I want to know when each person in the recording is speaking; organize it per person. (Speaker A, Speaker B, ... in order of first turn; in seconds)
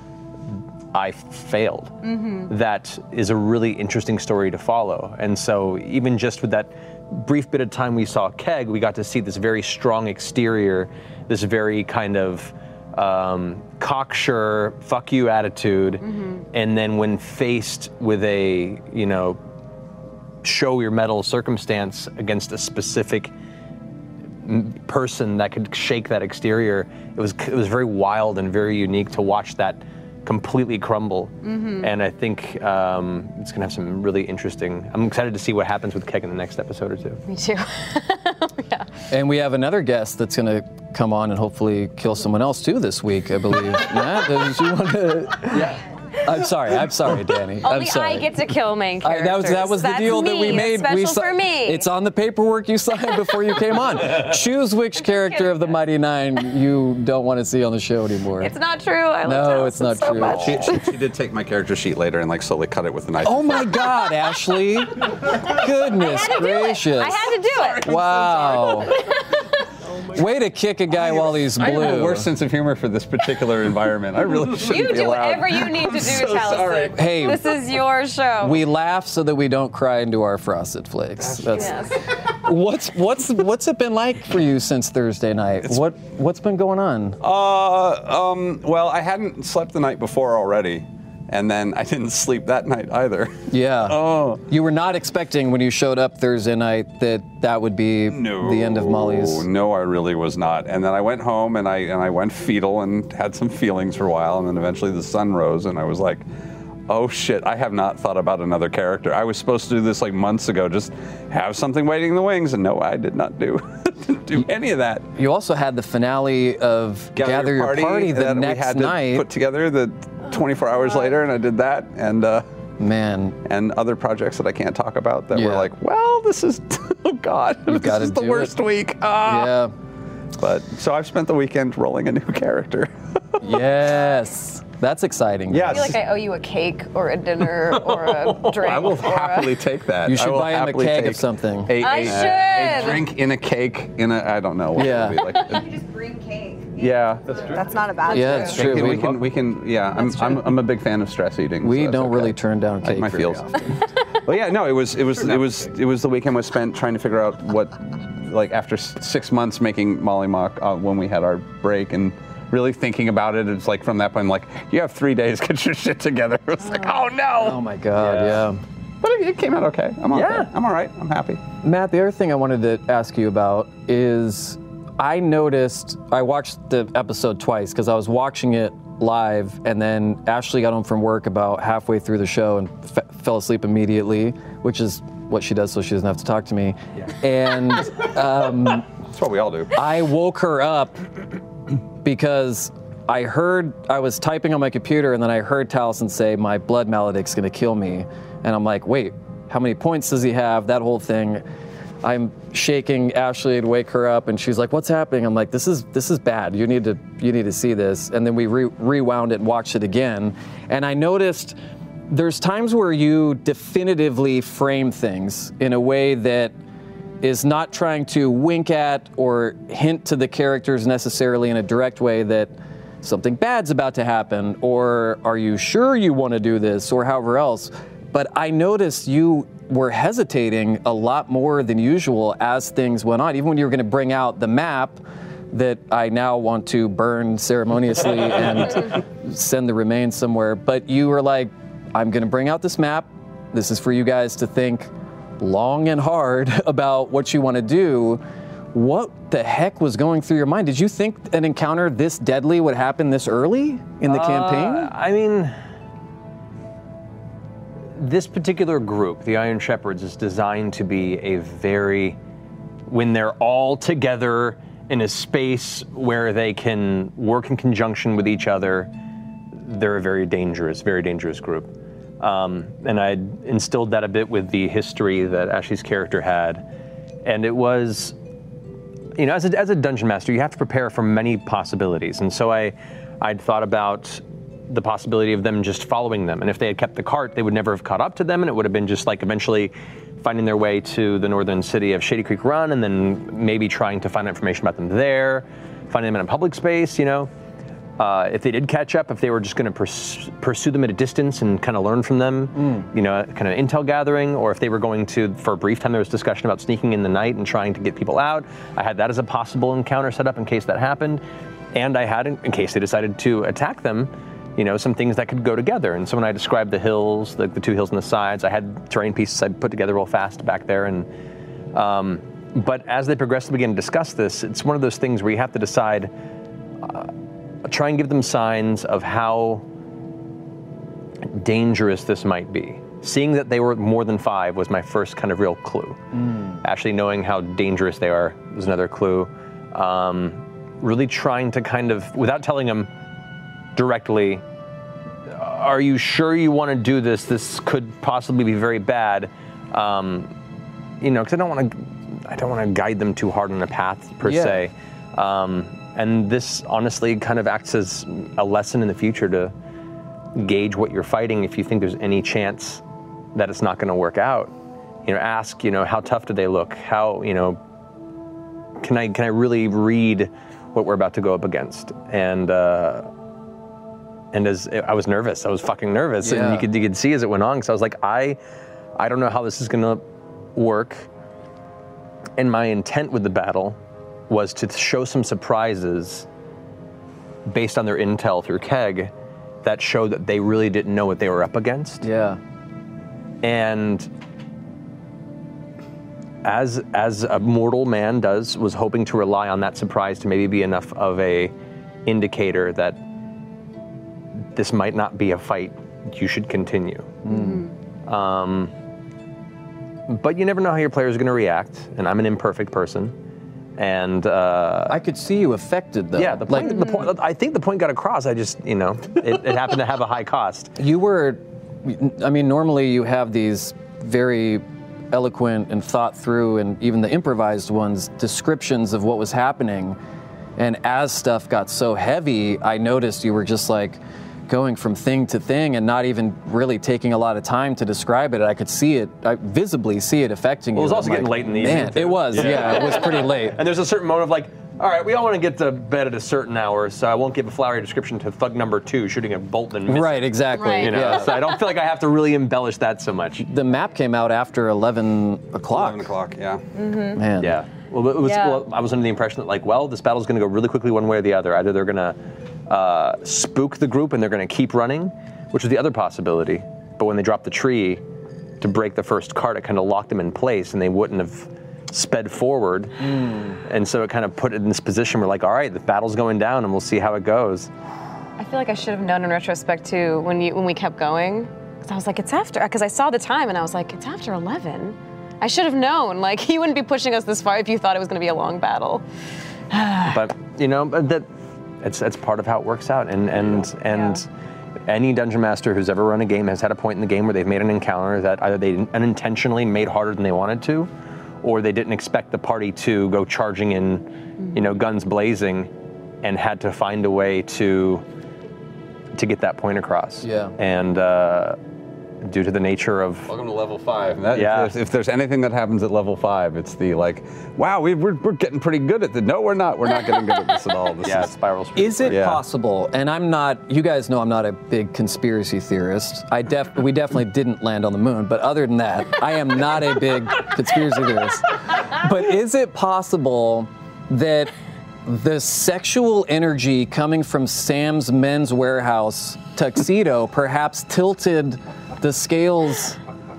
Speaker A: 0.9-19.4, 20.4-23.3, 24.4-37.2, 137.9-138.4, 168.0-168.4, 170.1-170.5, 254.1-255.6, 257.9-262.2, 262.9-268.9, 269.5-276.6, 277.2-278.2, 279.2-297.3, 298.0-311.2, 311.7-321.1, 321.7-326.1, 326.8-327.1, 327.6-329.6, 331.3-336.0, 336.6-342.9, 343.8-344.4, 345.3-350.3, 351.0-359.5, 360.4-362.8, 363.4-364.5, 365.1-367.6, 368.8-373.1, 374.3-378.4, 379.0-380.0, 380.6-381.1, 382.4-383.8, 384.3-386.3, 387.5-389.1, 389.6-392.1, 393.4-394.1, 396.4-401.5, 402.1-403.0, 404.6-407.1, 408.1-408.7, 410.1-413.1, 413.8-415.0, 416.2-420.8, 440.8-453.4, 457.4-462.2, 462.7-468.0, 468.6-473.0, 473.6-477.7, 490.1-491.3, 491.8-494.3, 494.9-500.9, 501.4-505.7, 506.2-508.0, 509.1-511.6, 512.2-513.3, 514.3-514.7, 521.0-522.2
Speaker B: 2.1-2.5, 16.1-16.4, 31.4-31.9, 37.3-38.9, 47.6-51.9, 55.0-55.8, 58.4-60.9, 66.0-67.9, 68.9-69.4, 74.5-78.6, 81.5-82.0, 135.7-139.6, 141.8-143.1, 407.3-407.7, 450.5-451.4, 456.8-457.2, 458.2-458.6, 478.4-489.0, 489.7-490.2, 493.9-494.2
Speaker C: 39.1-48.4, 49.0-58.5, 59.2-60.8, 63.2-67.3, 67.8-69.0, 70.1-72.3, 76.9-77.4, 78.4-87.2, 93.5-99.5, 115.2-119.3, 122.8-123.4, 125.3-125.7, 127.7-128.5, 129.3-129.7, 133.4-136.0, 140.1-141.8, 144.8-145.3, 148.1-149.2, 151.6-153.7, 167.4-168.6, 171.6-188.9, 189.8-191.1, 192.0-201.4, 202.0-211.6, 212.1-216.6, 217.2-248.2, 248.7-254.9, 302.6-302.9, 336.2-336.6, 354.2-354.6, 376.2-376.7, 392.0-392.4, 407.2-407.6, 414.9-416.9, 420.8-430.0, 430.6-443.6, 449.9-451.3, 453.4-456.1, 457.2-457.5, 473.0-473.6, 510.2-510.6, 521.8-534.5, 535.0-543.0
Speaker D: 60.3-64.1, 67.5-69.0, 70.9-77.0, 87.2-94.4, 98.1-106.2, 106.9-115.1, 117.2-122.4, 123.5-129.6, 130.4-133.4, 135.5-136.0, 138.5-145.7, 146.8-153.7, 154.2-167.6, 169.0-171.4, 189.0-189.7, 455.7-456.6, 513.3-521.3, 522.1-522.4
Speaker E: 145.4-148.8